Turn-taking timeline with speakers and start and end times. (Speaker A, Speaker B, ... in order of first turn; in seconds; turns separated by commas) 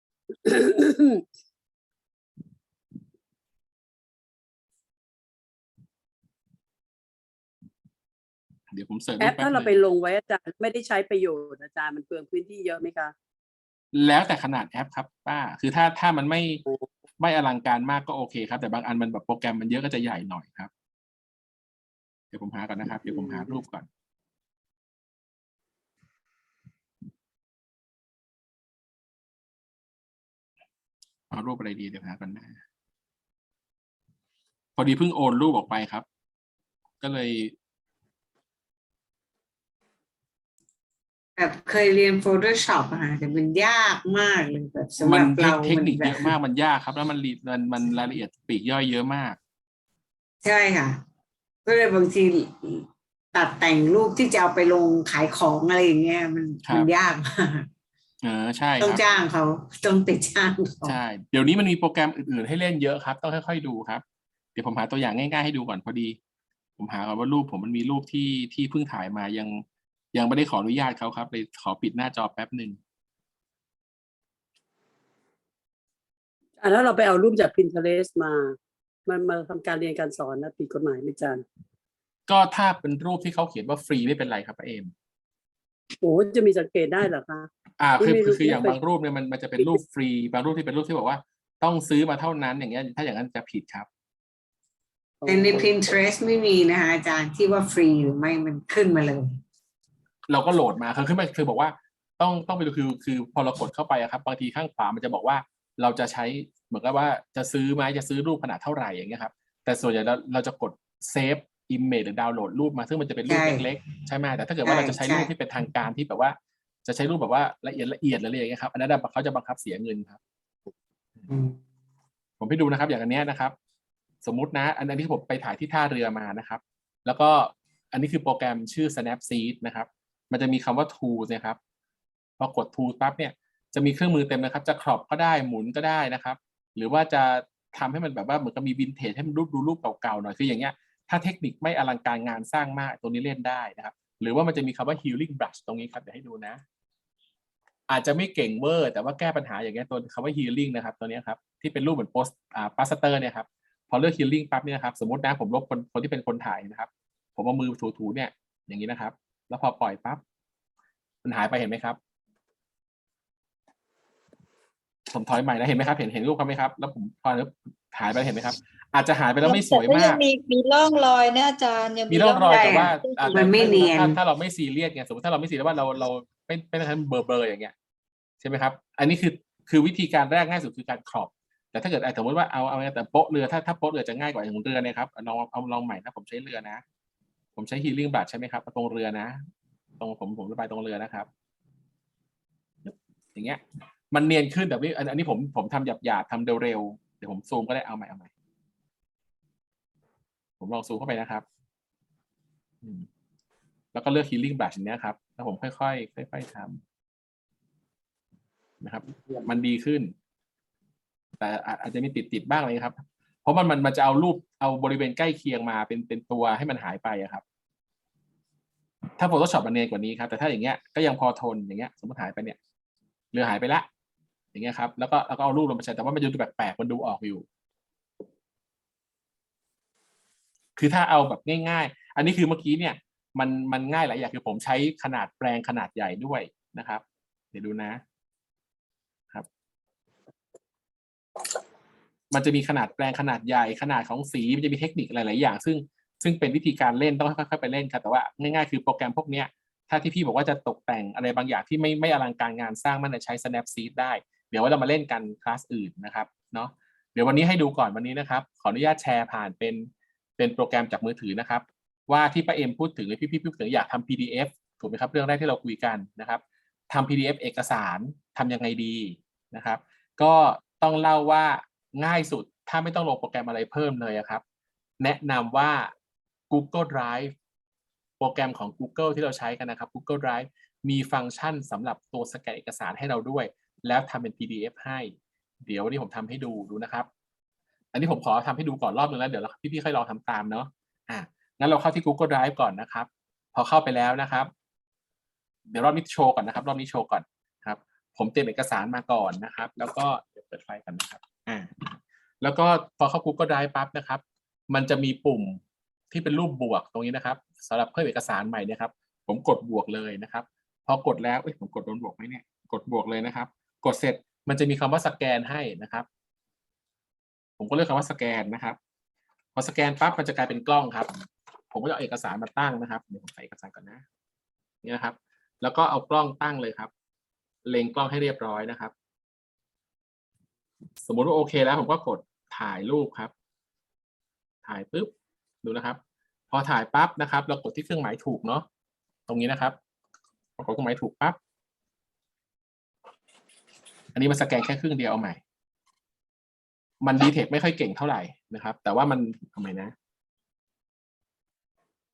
Speaker A: 0.4-1.2, Speaker B: 8.7-9.8, Speaker A: 9.2-13.1, Speaker B: 13.9-16.6, Speaker B: 17.2-20.7, Speaker B: 22.3-23.9, Speaker B: 31.3-32.6, Speaker B: 34.8-36.0, Speaker B: 37.0-37.5, Speaker C: 41.4-46.3, Speaker B: 45.0-49.4, Speaker C: 50.4-51.0, Speaker C: 51.6-57.7, Speaker B: 56.6-56.9, Speaker B: 58.2-59.0, Speaker C: 58.8-61.0, Speaker B: 60.8-64.0, Speaker B: 64.5-66.2, Speaker B: 66.8-72.8, Speaker A: 76.6-78.5, Speaker A: 79.1-81.4, Speaker B: 82.3-84.9, Speaker A: 86.0-88.8, Speaker B: 87.8-93.9, Speaker A: 95.2-95.7, Speaker C: 95.3-99.4, Speaker B: 100.3-120.2, Speaker C: 113.2-113.7, Speaker C: 114.6-115.3, Speaker C: 121.3-121.6, Speaker B: 122.4-123.5, Speaker B: 124.2-131.6, Speaker B: 132.4-146.6, Speaker B: 147.9-160.2, Speaker B: 161.2-162.0, Speaker B: 165.1-170.2, Speaker D: 169.4-173.8, Speaker B: 172.1-177.7, Speaker C: 172.5-174.2, Speaker B: 178.4-186.8, Speaker B: 187.6-189.4, Speaker B: 190.0-191.3, Speaker B: 192.8-198.3, Speaker B: 200.6-201.4, Speaker B: 202.8-203.1, Speaker B: 203.9-206.8, Speaker B: 208.8-210.1, Speaker B: 211.4-217.4, Speaker B: 219.2-222.6, Speaker B: 223.3-223.9, Speaker B: 224.5-227.4, Speaker B: 230.8-238.0, Speaker B: 242.3-274.4, Speaker B: 275.0-275.9, Speaker B: 276.5-277.3, Speaker B: 278.2-287.1, Speaker B: 287.9-294.5, Speaker B: 295.7-316.1, Speaker B: 317.6-318.8, Speaker B: 319.5-321.1, Speaker B: 321.7-324.0, Speaker B: 324.8-326.9, Speaker B: 327.6-328.9, Speaker B: 331.0-333.3, Speaker B: 334.6-335.1, Speaker B: 335.6-336.0, Speaker B: 336.5-338.6, Speaker B: 339.3-339.8, Speaker B: 340.6-341.4, Speaker B: 344.1-345.4, Speaker B: 347.0-349.9